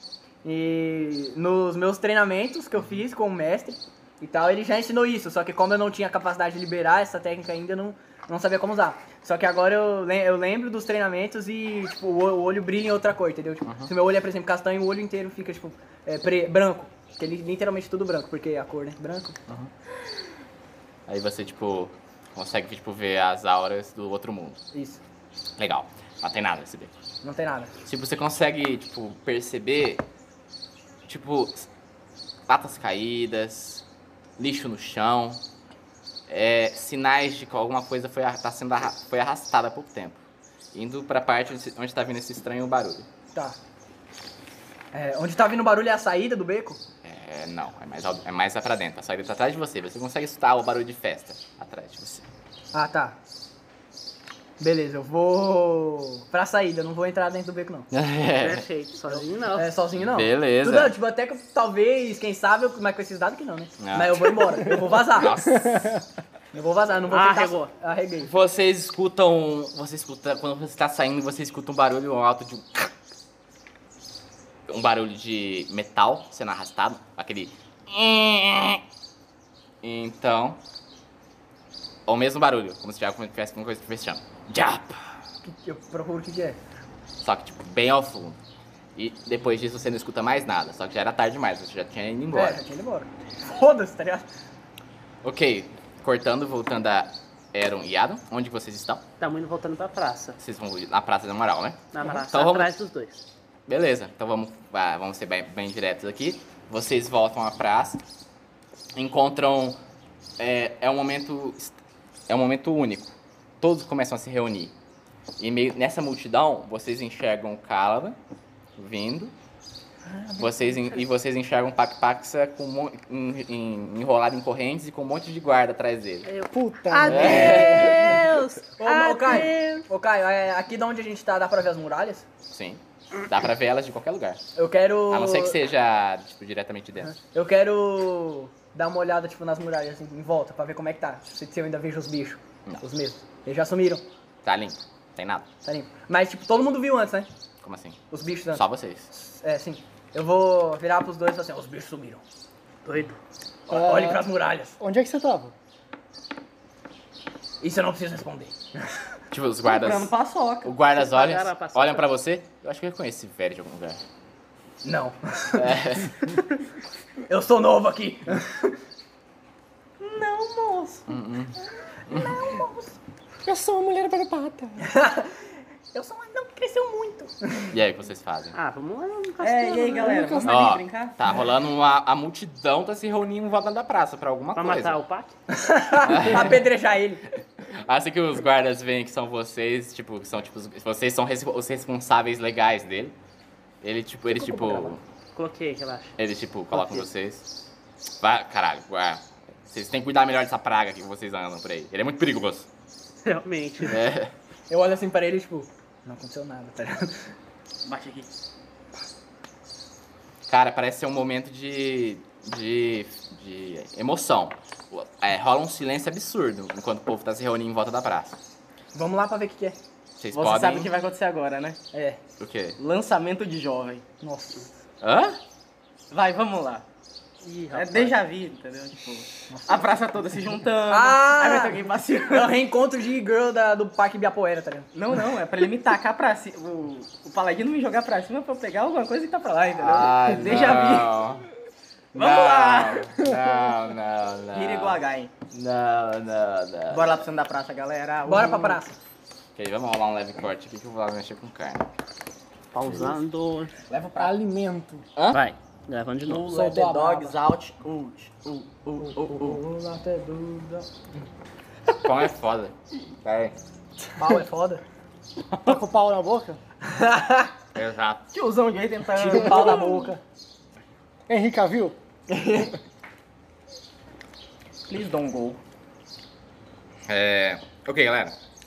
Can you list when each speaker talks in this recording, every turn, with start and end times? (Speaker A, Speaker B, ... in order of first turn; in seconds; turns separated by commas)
Speaker A: 0.4-19.4, Speaker B: 13.6-13.9, Speaker B: 21.1-24.6, Speaker A: 24.7-25.0, Speaker B: 25.6-26.9, Speaker A: 27.2-27.7, Speaker B: 27.8-30.0, Speaker B: 31.1-31.7, Speaker B: 32.5-33.8, Speaker B: 34.4-35.4, Speaker B: 36.3-40.2, Speaker B: 40.7-43.1, Speaker A: 44.9-46.8, Speaker B: 47.0-52.3, Speaker A: 52.7-53.1, Speaker A: 54.6-57.9, Speaker B: 57.9-58.7, Speaker C: 58.4-59.8, Speaker A: 59.1-65.3, Speaker B: 60.0-60.9, Speaker B: 63.8-65.9, Speaker A: 66.5-68.3, Speaker C: 67.1-67.7, Speaker B: 68.2-72.9, Speaker B: 74.7-78.8, Speaker B: 79.8-80.6, Speaker B: 82.1-85.1, Speaker A: 85.4-86.6, Speaker B: 87.2-88.4, Speaker B: 89.0-92.6, Speaker A: 92.3-94.3, Speaker B: 95.2-99.0, Speaker C: 99.2-100.4, Speaker B: 100.4-102.7, Speaker C: 101.9-103.2, Speaker B: 103.7-108.0, Speaker B: 108.9-109.8, Speaker B: 110.4-111.8, Speaker B: 112.3-114.7, Speaker B: 115.4-118.2, Speaker B: 118.8-119.3, Speaker B: 120.4-126.3, Speaker C: 126.2-129.6, Speaker D: 126.5-128.2, Speaker A: 127.0-132.2, Speaker B: 127.0-128.2, Speaker B: 132.5-134.4, Speaker A: 134.6-135.6, Speaker B: 135.1-137.1, Speaker A: 137.0-144.0, Speaker B: 144.4-145.5, Speaker A: 145.6-147.3, Speaker B: 147.6-148.0, Speaker A: 148.1-152.2, Speaker B: 148.5-149.1, Speaker C: 152.8-153.2, Speaker A: 153.7-154.8, Speaker D: 153.7-155.5, Speaker A: 157.6-158.5, Speaker B: 159.3-160.1, Speaker E: 159.7-160.7, Speaker B: 160.6-164.0, Speaker C: 160.9-162.1, Speaker A: 164.8-165.7, Speaker B: 165.5-166.2, Speaker A: 167.3-168.8, Speaker E: 170.0-171.0, Speaker B: 171.1-171.5, Speaker A: 172.1-172.9, Speaker D: 173.4-174.9, Speaker A: 174.9-175.3, Speaker A: 175.9-177.7, Speaker B: 177.7-178.6, Speaker C: 178.5-180.3, Speaker E: 179.4-181.2, Speaker D: 180.0-180.6, Speaker B: 180.4-185.0, Speaker C: 184.6-185.3, Speaker A: 185.5-187.2, Speaker B: 186.0-186.6, Speaker B: 187.8-193.1, Speaker B: 193.8-195.0, Speaker A: 194.3-194.9, Speaker C: 195.3-196.2, Speaker B: 196.2-197.5, Speaker B: 198.2-202.7, Speaker C: 203.2-204.0, Speaker B: 203.9-204.3, Speaker A: 204.7-207.2, Speaker E: 207.8-208.3, Speaker B: 210.5-218.4, Speaker A: 218.9-219.8, Speaker B: 220.2-220.9, Speaker E: 220.3-221.8, Speaker A: 221.9-222.2, Speaker B: 222.4-222.8, Speaker E: 222.8-224.0, Speaker A: 224.2-224.7, Speaker B: 225.0-225.4, Speaker E: 226.1-226.8, Speaker C: 227.4-228.2, Speaker E: 227.7-232.6, Speaker A: 229.5-229.9, Speaker A: 230.9-234.9, Speaker E: 234.9-241.1, Speaker B: 239.8-241.4, Speaker E: 242.1-243.1, Speaker B: 242.1-245.0, Speaker E: 244.5-245.3, Speaker B: 245.5-247.2, Speaker E: 246.9-248.8, Speaker A: 248.2-249.0, Speaker B: 249.6-251.9, Speaker C: 252.7-253.7, Speaker E: 253.9-254.3, Speaker D: 254.2-255.0, Speaker B: 255.2-255.4, Speaker C: 255.3-256.5, Speaker E: 256.3-259.6, Speaker A: 256.3-257.4, Speaker A: 259.0-261.1, Speaker B: 262.0-263.6, Speaker A: 264.1-264.8, Speaker D: 265.6-266.6, Speaker A: 266.8-267.5, Speaker B: 267.7-268.2, Speaker E: 268.3-270.1, Speaker A: 269.1-270.2, Speaker D: 271.3-272.0, Speaker A: 272.3-272.7, Speaker E: 274.9-275.6, Speaker B: 277.1-278.4